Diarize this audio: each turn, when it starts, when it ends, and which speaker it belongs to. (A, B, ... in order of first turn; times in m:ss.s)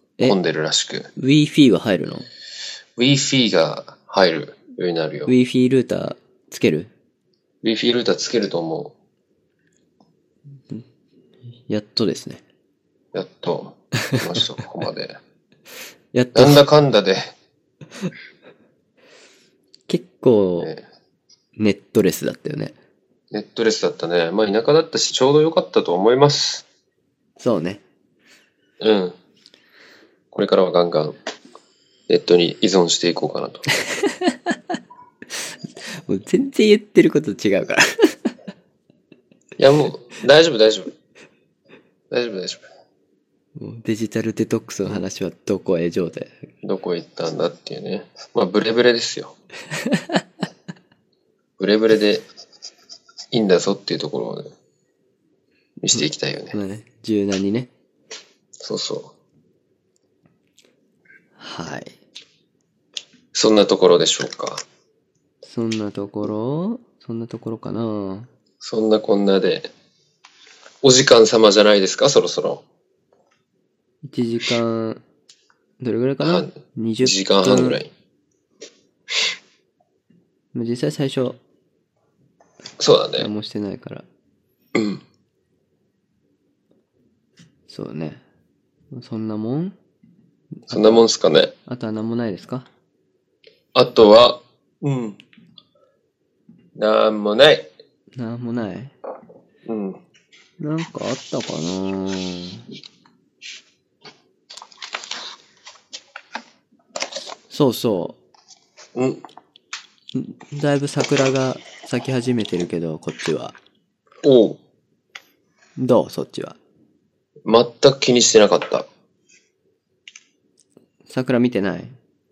0:00.2-0:01.1 A
0:01.2-0:02.2 B
0:03.0-0:05.3 A
0:05.3-0:06.9 B
0:07.6-0:08.9 A
0:11.7-0:12.4 B
0:13.1-0:15.2 A
0:16.1-0:16.6 B
0:16.3-0:17.3 A
0:19.9-0:20.7 B
0:21.6-0:22.7 B
0:23.3-0:26.6 A
0:27.4-0:27.8 B
0:28.8-0:29.2 A
0:30.3-0:31.2 A
0:32.1-0:33.6 A
0:34.0-0:34.3 B
0:36.0-0:38.3 B
0:39.6-0:40.9 A
0:42.1-0:42.6 A
0:43.6-0:46.4 B
0:46.6-0:49.3 A
0:49.9-0:50.2 B
0:51.6-0:52.2 A
0:53.3-0:54.5 A
0:55.8-0:56.6 A
0:55.9-0:57.7 B
0:58.6-0:59.1 A
1:01.4-1:02.0 B
1:03.3-1:04.6 A
1:05.4-1:08.3 B
1:08.6-1:09.7 A
1:10.8-1:12.6 A
1:14.0-1:15.0 B
1:15.8-1:17.8 B
1:16.2-1:17.9 A
1:20.5-1:21.4 B
1:22.8-1:23.3 A
1:23.2-1:24.0 B
1:24.7-1:25.0 A
1:27.7-1:28.2 B
1:28.9-1:29.7 B
1:30.6-1:31.0 B
1:30.7-1:31.5 A
1:31.7-1:32.7 B
1:33.7-1:35.2 A
1:36.8-1:37.7 A
1:38.2-1:38.9 B
1:39.6-1:40.0 A
1:40.6-1:42.6 B
1:47.5-1:48.2 B
1:48.9-1:49.2 A
1:50.1-1:53.5 B
1:54.2-1:54.6 A
1:55.8-1:56.6 B
1:57.4-1:58.9 A
2:01.1-2:01.9 B